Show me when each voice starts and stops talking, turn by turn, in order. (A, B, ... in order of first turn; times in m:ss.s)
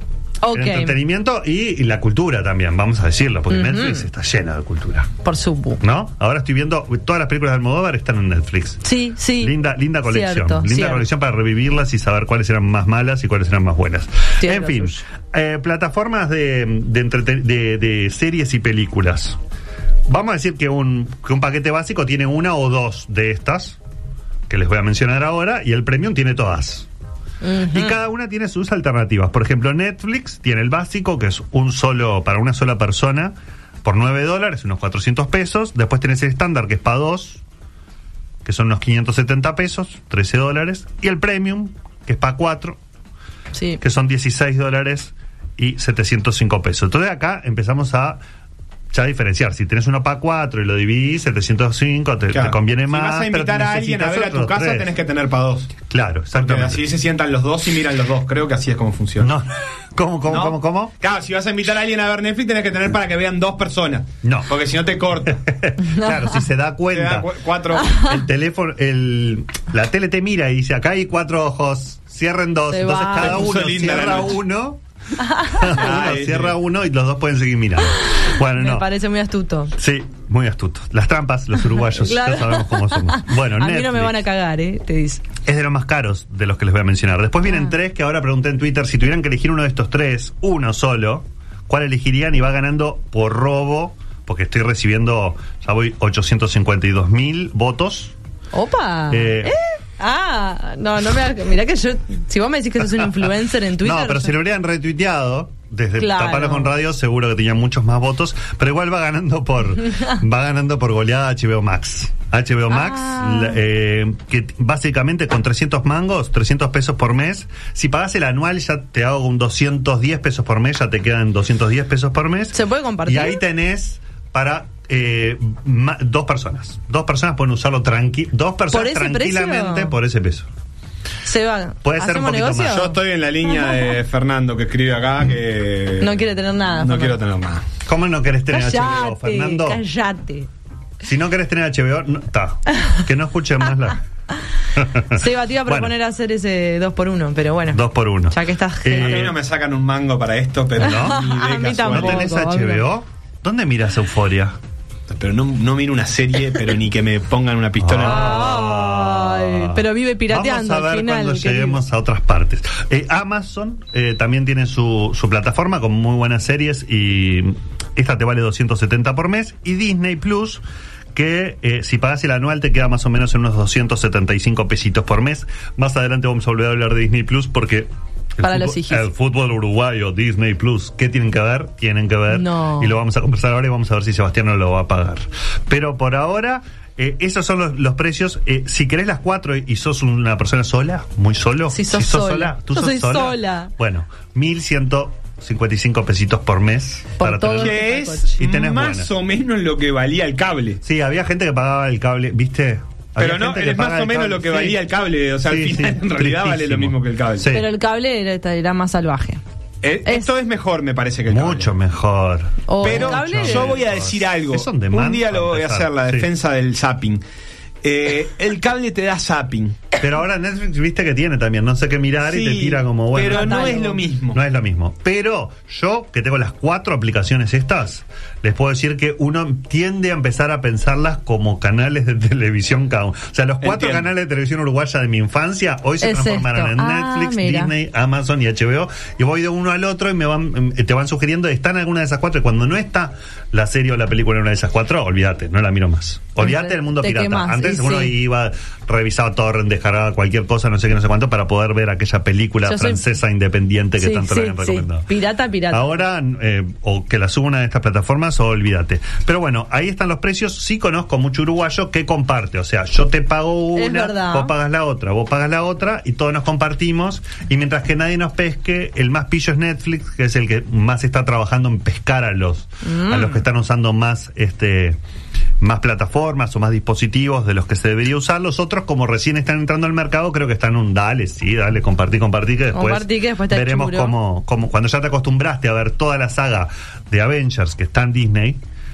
0:00.4-0:01.0 A
0:00.5-0:05.1 B
0:03.5-0:04.1 A
0:05.2-0:05.8 A
0:05.8-0:08.8 B
0:08.8-0:11.1 A
0:09.4-0:19.4 B
0:14.4-0:15.0 A
0:20.1-0:23.8 B
0:24.5-0:26.9 B
0:27.4-0:28.0 A
0:27.7-0:37.4 B
0:38.4-0:42.8 B
0:43.5-0:43.8 A
0:43.8-0:48.2 B
0:48.9-0:54.9 B
0:52.3-0:55.8 C
0:55.9-0:56.9 B
0:56.4-0:59.3 C
0:59.2-1:00.9 B
1:00.3-1:05.4 C
1:04.2-1:04.5 B
1:05.3-1:07.3 B
1:05.8-1:06.4 A
1:06.9-1:08.0 C
1:07.9-1:14.8 B
1:12.7-1:13.5 A
1:13.2-1:14.4 C
1:15.2-1:15.7 A
1:15.5-1:18.9 B
1:15.7-1:16.6 C
1:18.0-1:19.8 A
1:19.8-1:24.2 B
1:21.8-1:25.2 A
1:25.4-1:38.2 B
1:27.5-1:27.8 A
1:38.5-1:44.3 A
1:39.1-1:39.6 B
1:43.0-2:10.5 B
1:46.0-1:46.7 A
1:52.7-1:53.6 A
2:02.5-2:03.4 A
2:08.7-2:09.9 A
2:11.2-2:13.0 A
2:11.8-2:12.8 B
2:12.6-2:16.2 C
2:16.0-2:17.2 A
2:16.8-2:17.7 C
2:17.9-2:19.8 B
2:18.5-2:20.5 A
2:21.0-2:24.0 B
2:24.8-2:25.9 B
2:25.1-2:29.3 A
2:27.7-2:29.4 B
2:29.0-2:32.3 C
2:30.8-2:31.2 B
2:30.8-2:32.9 A
2:31.9-2:34.6 B
2:35.1-2:38.5 C
2:37.8-2:50.6 B
2:38.0-2:41.8 A
2:51.1-3:17.8 B
2:58.4-2:59.1 A
3:02.3-3:03.0 A
3:11.7-3:13.7 A
3:17.2-3:18.4 A
3:17.6-3:20.8 C
3:18.4-3:19.1 B
3:20.8-3:24.8 B
3:23.2-3:27.5 C
3:25.4-3:27.7 B
3:27.5-3:29.4 A
3:29.8-3:31.7 C
3:31.3-3:36.3 B
3:32.7-3:33.8 A
3:32.8-3:37.2 C
3:37.8-3:39.8 C
3:40.0-4:15.1 B
3:42.2-3:44.4 C
3:43.3-3:44.0 A
3:53.6-3:54.1 C
3:56.0-3:57.7 A
4:06.4-4:08.2 A
4:12.6-4:13.0 A
4:14.0-4:16.1 A
4:15.7-4:35.0 B
4:23.8-4:24.5 A
4:32.8-4:33.4 A
4:35.6-4:48.6 B
4:42.7-4:44.2 A